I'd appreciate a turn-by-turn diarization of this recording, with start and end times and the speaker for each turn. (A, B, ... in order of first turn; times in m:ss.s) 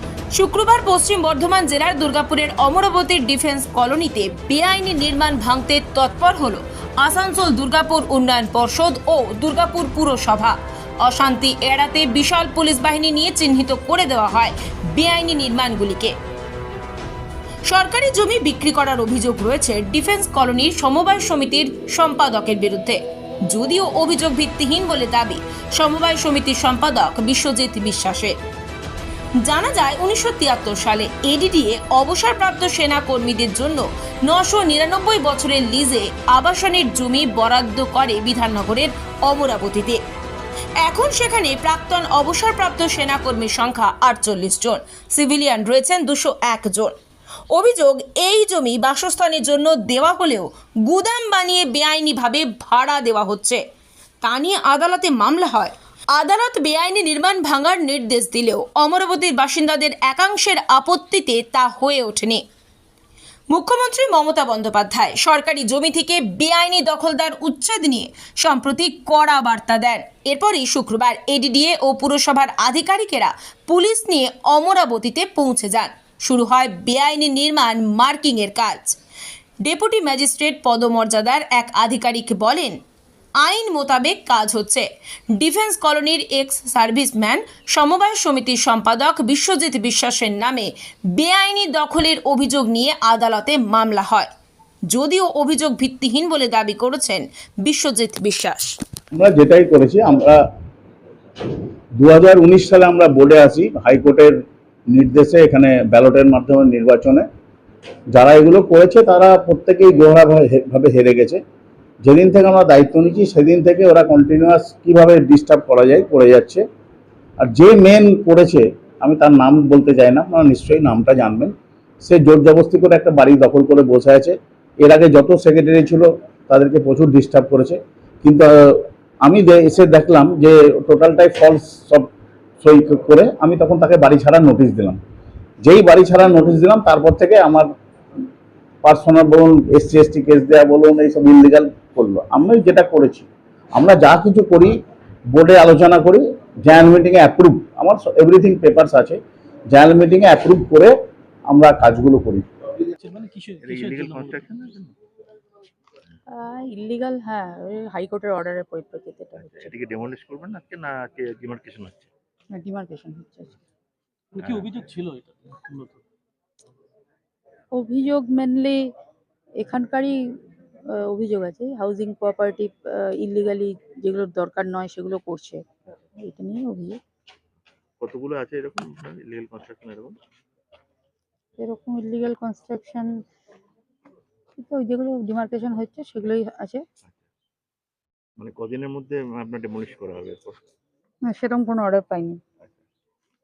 0:00.3-0:16.1 A
0:17.7-0:28.3 A
0:29.4-0:40.0 A
0:40.8-0:46.9 A
0:47.5-0:53.6 A
0:54.2-1:02.4 A
1:03.5-1:19.0 A
1:19.6-1:22.8 A
1:23.4-1:34.3 A
1:34.9-1:38.8 A
1:39.2-1:40.4 B
1:42.0-1:44.4 B
1:44.9-1:47.2 B
1:48.1-1:51.4 B
1:52.0-1:56.6 B
1:57.4-2:12.1 B
2:12.6-2:15.0 B
2:15.6-2:17.7 B
2:18.8-2:24.7 B
2:25.3-2:29.2 B
2:29.7-2:30.9 B
2:31.5-2:32.4 B
2:33.0-2:34.4 C
2:33.6-2:35.0 D
2:36.3-2:39.7 E
2:39.4-2:42.1 D
2:42.5-2:43.6 E
2:44.3-2:46.0 C
2:44.4-2:44.8 D
2:47.7-2:48.9 E
2:49.6-2:50.2 E
2:51.0-2:55.6 E
2:56.2-2:57.0 E
2:58.0-3:00.2 D
3:01.6-3:03.1 E
3:04.6-3:06.8 E
3:08.4-3:10.6 D
3:11.3-3:12.4 E